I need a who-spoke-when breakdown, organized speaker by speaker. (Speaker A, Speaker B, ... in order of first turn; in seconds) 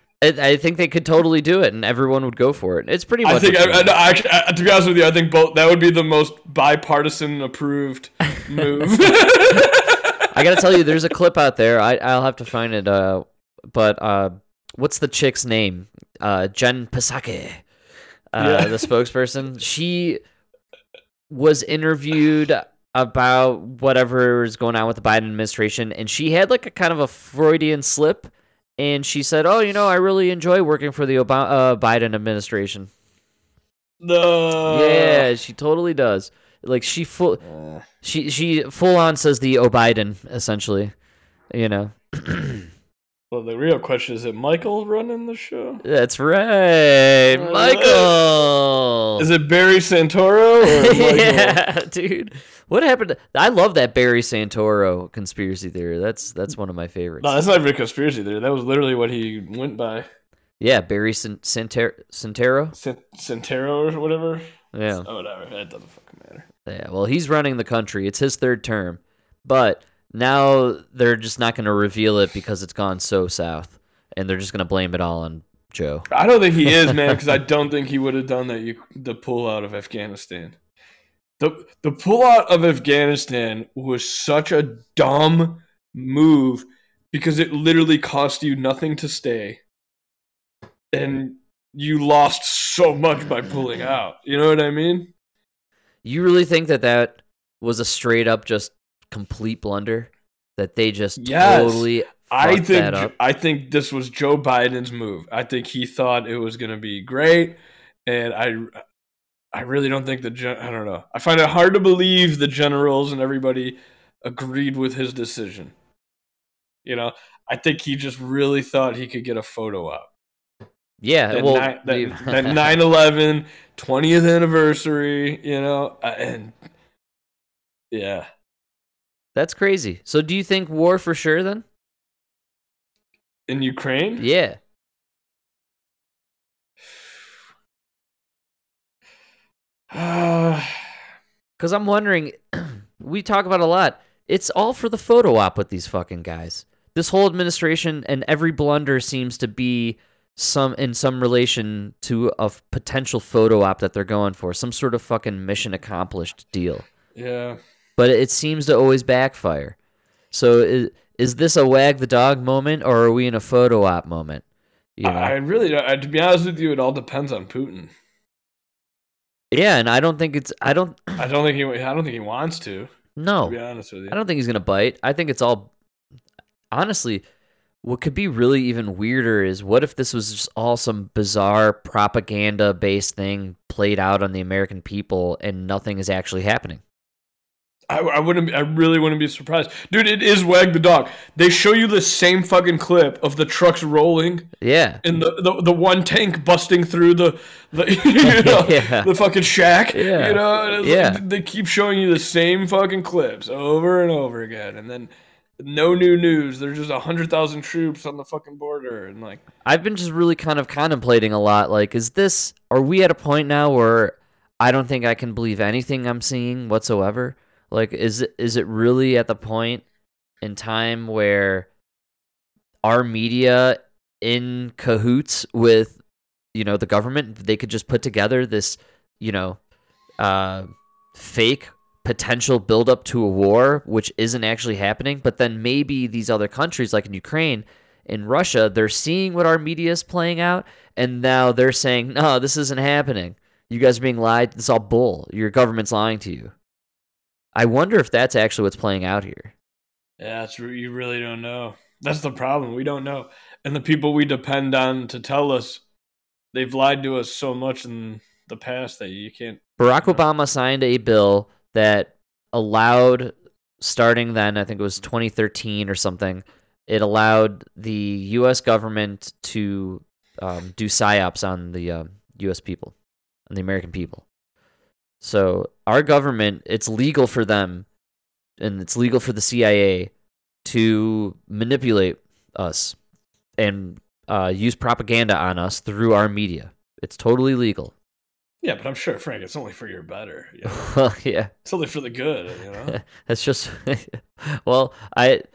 Speaker A: 0.2-3.9, 10.3-17.6, 18.3-20.2, 21.3-32.9, 34.7-37.4, 38.0-40.9, 41.5-42.7, 45.8-49.2, 50.7-57.4, 60.6-62.8, 64.7-65.1, 66.7-76.1, 76.7-77.0, 96.0-103.1, 121.0-122.7, 129.3-131.7, 134.2-134.6, 141.6-156.8, 158.0-159.8, 160.3-164.4, 165.0-165.3, 169.5-171.2, 173.2-173.6, 174.1-175.7, 176.7-177.2, 177.8-186.8, 194.6-195.0, 198.2-199.1, 199.9-201.2, 209.7-219.8, 220.4-221.7, 222.8-226.0, 226.5-229.6, 230.2-246.5, 247.6-249.5, 259.8-272.9, 273.5-274.2, 275.2-277.9, 278.6-280.1, 280.6-283.0, 283.6-287.9, 290.7-291.5, 292.9-295.5
Speaker B: 3.2-10.1, 18.4-18.9, 34.0-35.3, 37.4-37.9, 43.3-45.8, 47.3-48.2, 49.2-51.6, 57.2-60.1, 62.8-64.4, 65.0-66.5, 76.1-80.6, 81.4-89.6, 90.9-95.1, 101.2-108.8, 109.5-115.7, 116.8-120.1, 121.3-126.5, 127.9-128.3, 133.5-134.2, 139.9-140.8, 157.2-157.6, 165.0-167.9, 171.2-172.9, 173.4-174.2, 187.9-194.5, 195.0-209.4, 250.2-255.8, 256.5-260.2, 288.6-290.9, 291.6-293.0